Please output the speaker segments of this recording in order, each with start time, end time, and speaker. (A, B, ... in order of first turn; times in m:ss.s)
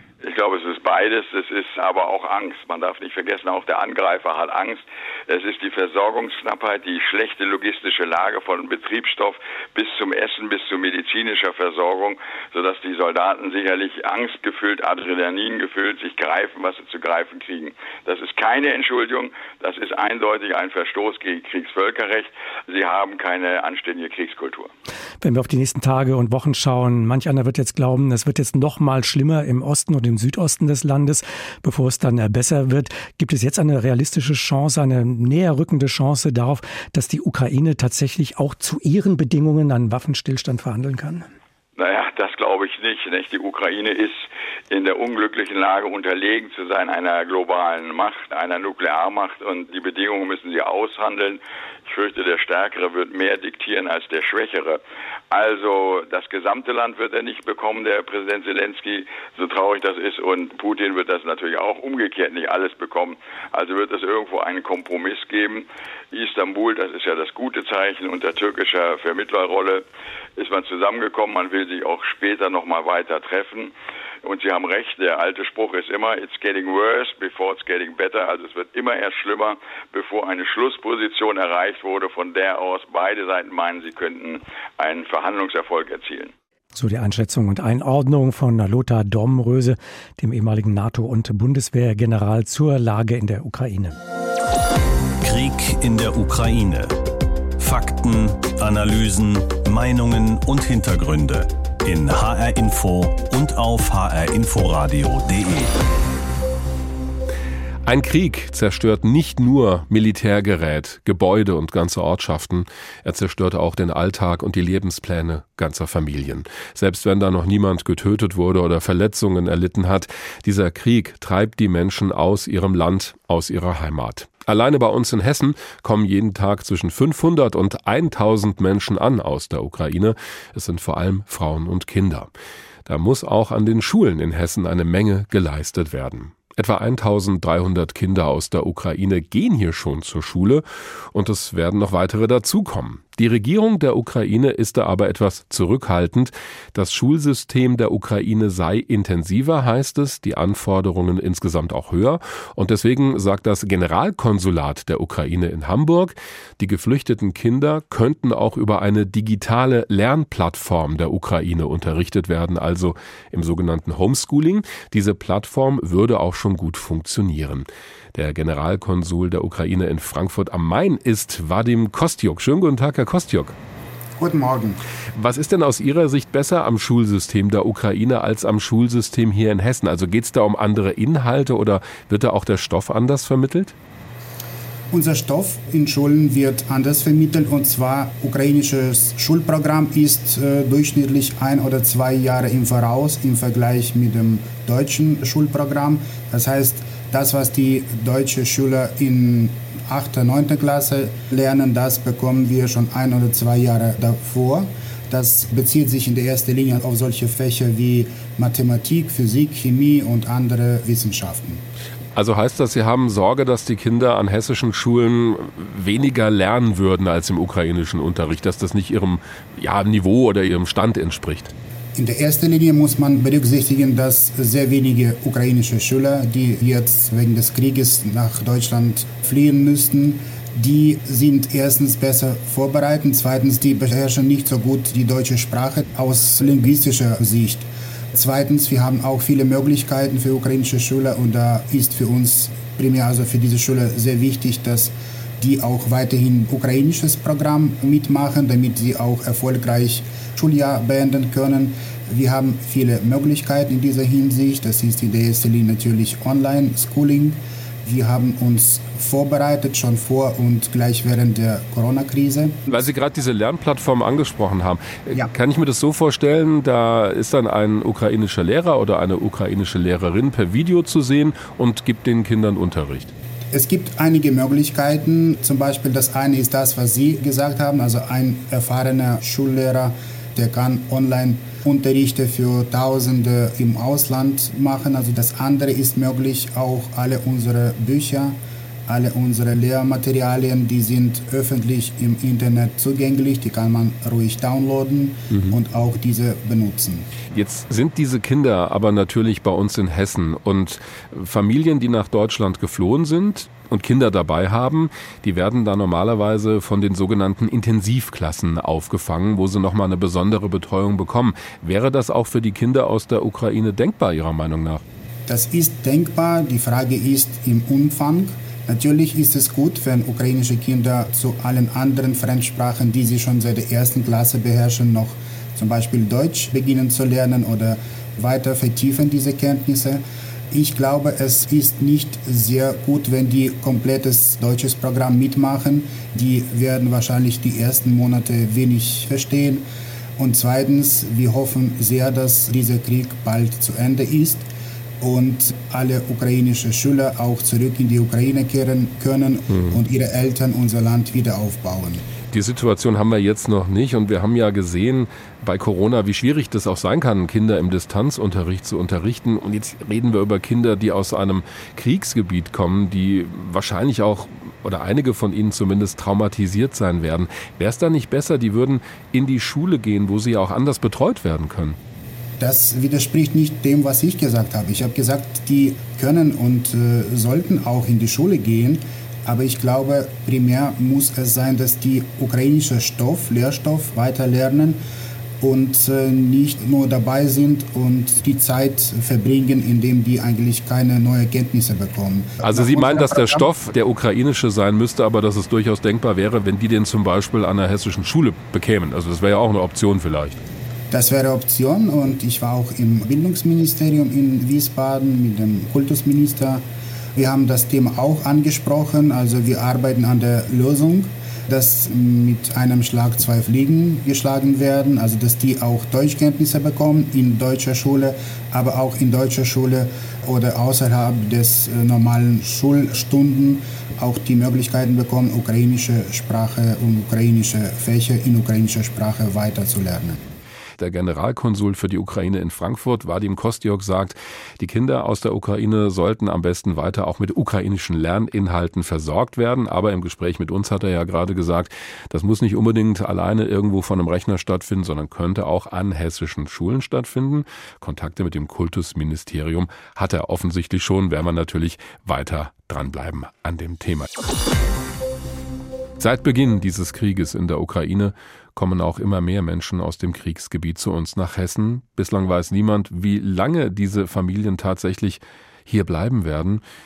0:00.2-0:24.7 A
0:25.2-0:41.2 B
0:41.8-0:54.8 A
0:55.3-1:09.8 A
1:10.4-1:13.7 A
1:14.2-1:26.3 A
1:26.7-1:34.0 B
1:35.2-1:37.0 C
1:37.6-1:45.8 C
1:47.8-2:12.3 D
2:12.8-2:53.5 D
2:54.2-2:54.8 E
2:55.1-3:03.7 D
3:04.9-3:31.6 E
3:32.1-3:41.5 D
3:42.0-4:22.6 E
4:22.7-4:33.1 D
4:33.5-4:57.1 E
4:57.3-5:14.8 D
5:15.2-5:39.6 E
5:40.2-5:44.5 E
5:45.0-5:52.0 E
5:49.5-5:49.8 D
5:52.3-6:11.8 D
6:12.4-6:24.8 E
6:25.4-6:33.4 E
6:32.4-6:40.4 D
6:40.9-6:46.6 E
6:47.1-7:10.2 E
7:10.8-7:34.1 D
7:36.0-7:46.6 D